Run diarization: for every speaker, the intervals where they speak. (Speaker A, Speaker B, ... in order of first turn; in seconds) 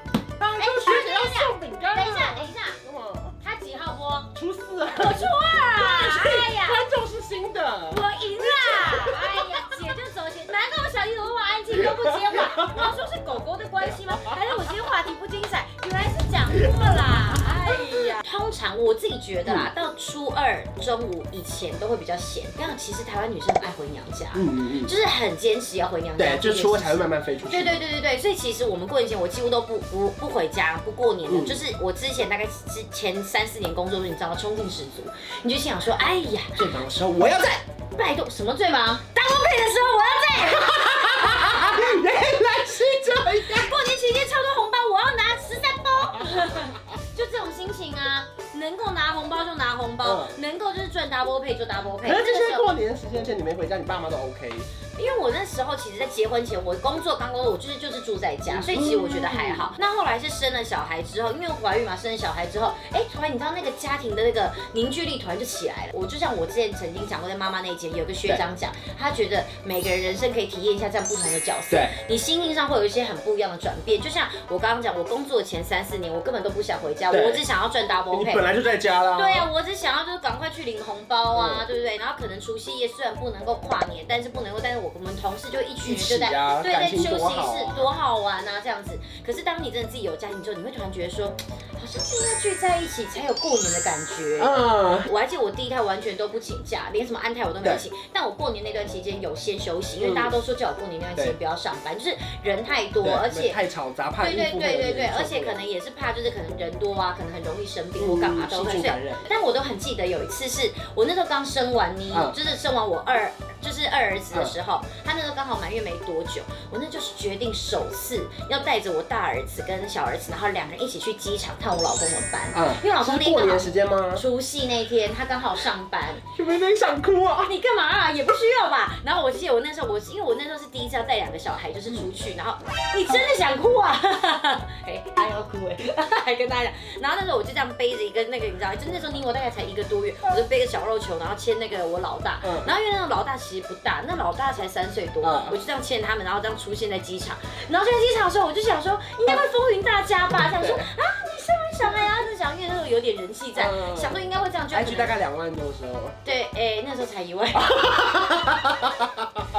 Speaker A: 0.4-3.4, 4.3-9.8, 11.7-12.9, 16.6-17.9, 24.3-24.9, 26.2-27.8, 31.3-31.6, 36.5-37.6, 40.4-43.8, 50.0-50.4, 52.0-54.7, 58.5-59.7, 71.7-72.0, 77.1-77.4, 78.1-79.5, 81.3-81.7, 85.8-87.9, 94.4-95.1, 100.0-100.3, 103.0-105.6, 108.0-109.3, 122.5-124.2, 126.2-127.5, 142.4-142.7, 145.2-145.6, 150.5-150.9, 153.5-154.2, 154.7-156.2, 157.5-159.4
Speaker B: 0.6-2.8, 3.4-4.3, 4.8-6.8, 7.9-36.6, 37.9-41.8, 43.2-52.7, 55.0-78.5, 79.1-103.6, 104.2-126.2, 127.4-155.1, 156.2-157.8